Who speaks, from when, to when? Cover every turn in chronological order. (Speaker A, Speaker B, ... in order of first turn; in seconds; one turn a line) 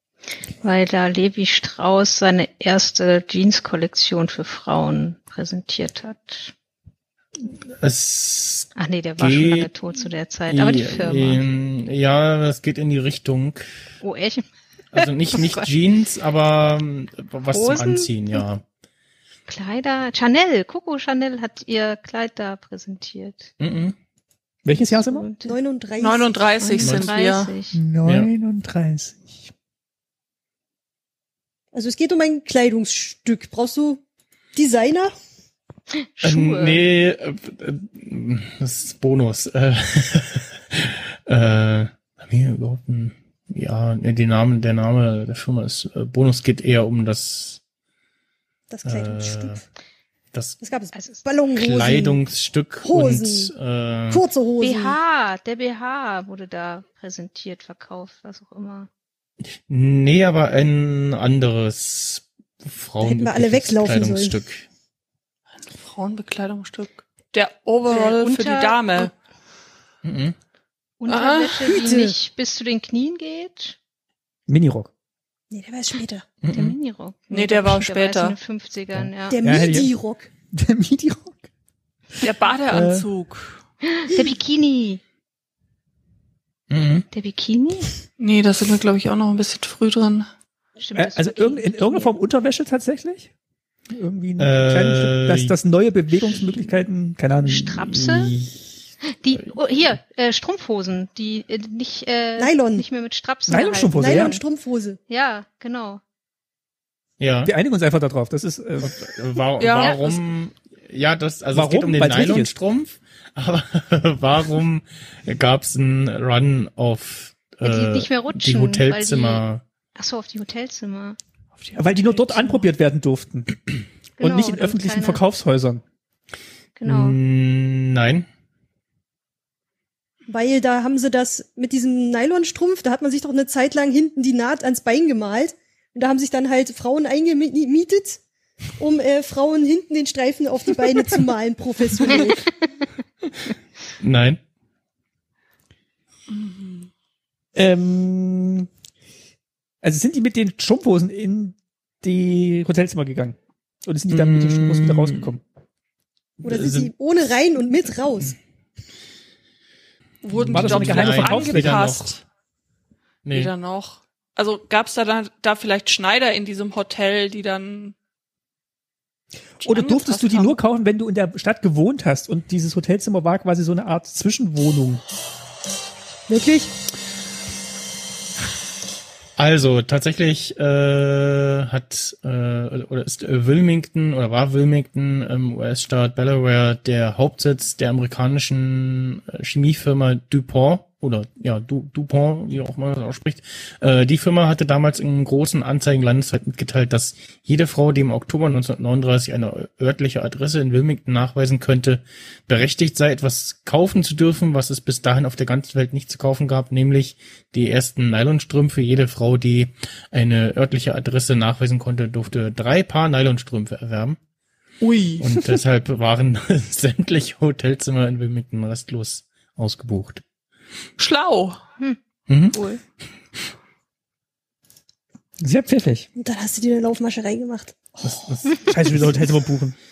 Speaker A: 0.6-6.5
Speaker B: 7.4-9.7
Speaker A: 8.8-11.4
Speaker B: 10.5-13.8
Speaker A: 14.0-14.4
Speaker B: 14.9-18.6
Speaker A: 15.3-15.7
Speaker A: 17.5-18.4
Speaker A: 19.5-23.5
Speaker B: 23.6-24.0
Speaker C: 24.6-25.3
Speaker A: 24.7-25.6
Speaker D: 25.5-26.5
Speaker E: 26.0-27.6
Speaker A: 26.6-27.8
Speaker B: 26.8-27.1
Speaker C: 27.7-29.5
Speaker B: 28.1-28.3
Speaker D: 31.7-34.0
Speaker D: 34.5-35.1
Speaker A: 36.0-36.8
Speaker B: 36.2-47.6
Speaker D: 48.7-49.6
Speaker B: 48.9-49.6
Speaker B: 50.3-50.6
Speaker D: 50.6-52.2
Speaker A: 50.9-51.2
Speaker B: 51.5-54.2
Speaker D: 52.8-53.5
Speaker D: 54.1-55.0
Speaker A: 54.6-58.9
Speaker B: 59.7-64.7
Speaker D: 63.0-64.3
Speaker E: 65.7-69.1
Speaker A: 67.9-69.1
Speaker B: 70.0-70.4
Speaker A: 71.0-73.8
Speaker E: 71.1-71.7
Speaker D: 71.6-72.1
Speaker C: 74.5-74.9
Speaker D: 75.5-76.3
Speaker B: 76.4-76.8
Speaker A: 76.5-79.4
Speaker E: 77.3-78.4
Speaker D: 79.3-80.3
Speaker C: 79.4-79.9
Speaker C: 80.5-81.5
Speaker C: 82.2-83.1
Speaker E: 82.2-83.6
Speaker A: 83.8-85.0
Speaker B: 86.7-87.1
Speaker A: 87.1-88.0
Speaker E: 88.2-90.3
Speaker A: 90.8-92.2
Speaker C: 90.9-93.3
Speaker C: 93.9-97.8
Speaker B: 94.4-95.5
Speaker A: 97.4-98.3
Speaker B: 97.8-98.9
Speaker A: 99.1-104.4
Speaker D: 102.4-102.9
Speaker C: 103.5-104.4
Speaker D: 104.0-105.0
Speaker A: 105.1-106.0
Speaker B: 107.2-107.5
Speaker C: 107.4-108.9
Speaker B: 108.8-119.6
Speaker E: 109.6-110.2
Speaker C: 111.5-112.5
Speaker A: 117.6-119.4
Speaker A: 120.0-121.2
Speaker E: 121.6-122.4
Speaker C: 121.8-123.6
Speaker A: 124.2-125.2
Speaker C: 124.2-125.8
Speaker A: 126.8-127.2
Speaker B: 126.9-128.3
Speaker D: 130.3-138.2
Speaker D: 138.8-142.5
Speaker B: 144.0-144.4
Speaker E: 146.3-146.9
Speaker C: 147.6-148.7
Speaker C: 149.8-155.4
Speaker B: 154.1-155.3
Speaker B: 156.4-156.9
Speaker D: 156.4-158.4
Speaker E: 160.2-162.2
Speaker B: 160.3-162.1
Speaker C: 160.5-162.0
Speaker B: 163.2-163.5
Speaker E: 163.3-167.9
Speaker E: 169.6-170.6
Speaker C: 169.6-175.0
Speaker D: 176.3-176.7
Speaker B: 179.4-214.2
Speaker E: 214.8-215.3
Speaker B: 215.2-220.2
Speaker E: 221.0-221.6
Speaker B: 222.3-222.6
Speaker A: 222.5-222.8
Speaker C: 225.4-226.1
Speaker D: 226.2-227.8
Speaker B: 228.0-229.2
Speaker C: 228.6-229.8